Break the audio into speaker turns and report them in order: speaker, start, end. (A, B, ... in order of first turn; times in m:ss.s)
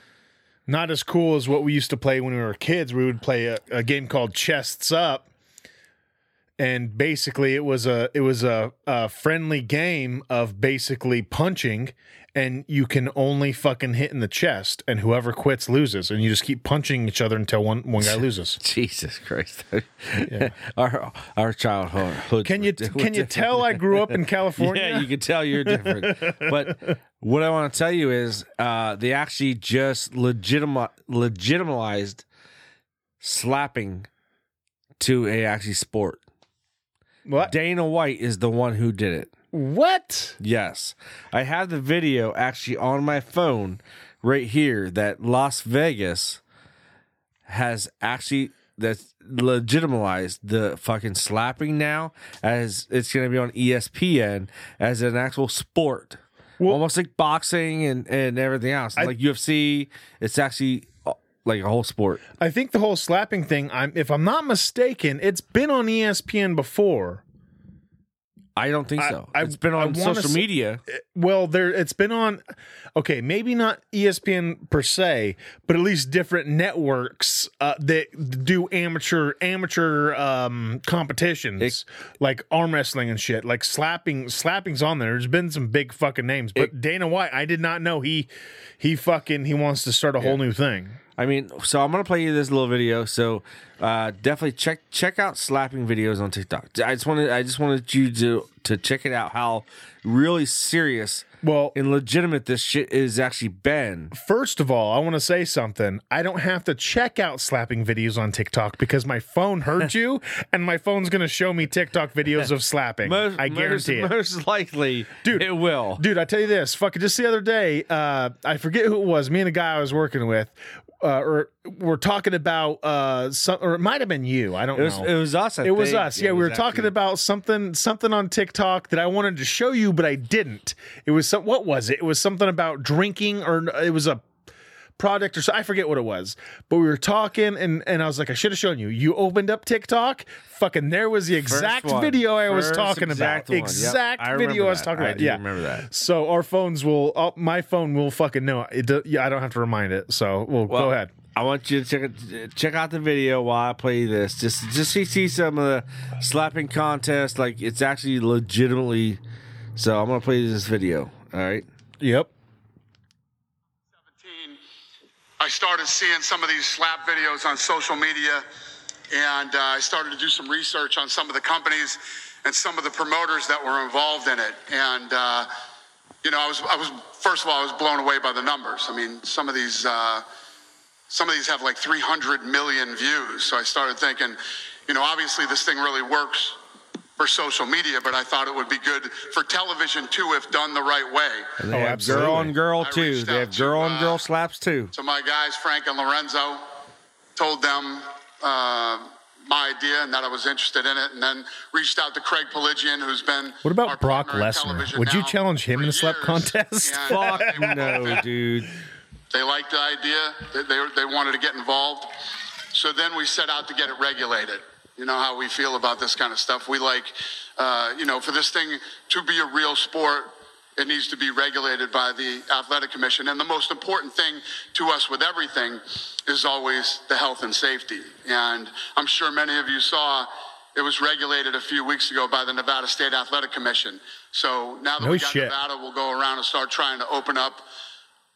0:00.7-0:05.2 A
0:06.6-0:18.6 A
0:18.0-0:32.2 B
0:22.4-0:26.9 A
0:33.2-0:34.1 B
0:35.0-0:36.2 B
0:37.2-0:37.5 A
0:37.4-0:39.3 B
0:39.5-0:40.4 A
0:40.4-0:46.4 B
0:47.5-1:02.2 B
1:02.4-1:07.2 A
1:08.6-1:10.8 B
1:09.0-1:12.4 A
1:13.0-1:31.0 A
1:31.2-1:44.1 B
1:41.4-1:41.7 A
1:44.1-1:54.1 A
1:53.0-1:56.0 B
1:55.2-2:05.1 A
2:04.7-2:06.9 B
2:05.6-2:14.2 A
2:15.0-2:31.1 A
2:21.4-2:25.9 B
2:30.7-2:39.2 B
2:39.7-2:41.6 B
2:42.0-2:42.3 A
2:44.2-2:44.6 C
2:45.4-2:48.4 C
2:49.1-2:55.5 C
2:56.2-3:00.2 C
3:01.1-3:06.6 C
3:07.2-3:11.6 C
3:11.6-3:14.9 B
3:11.7-3:12.5 A
3:12.8-3:14.2 C
3:14.9-3:16.7 C
3:17.4-3:28.2 C
3:23.6-3:28.0 A
3:27.1-3:28.7 B
3:29.3-3:32.1 C
3:32.7-3:57.6 C
3:55.0-3:55.5 A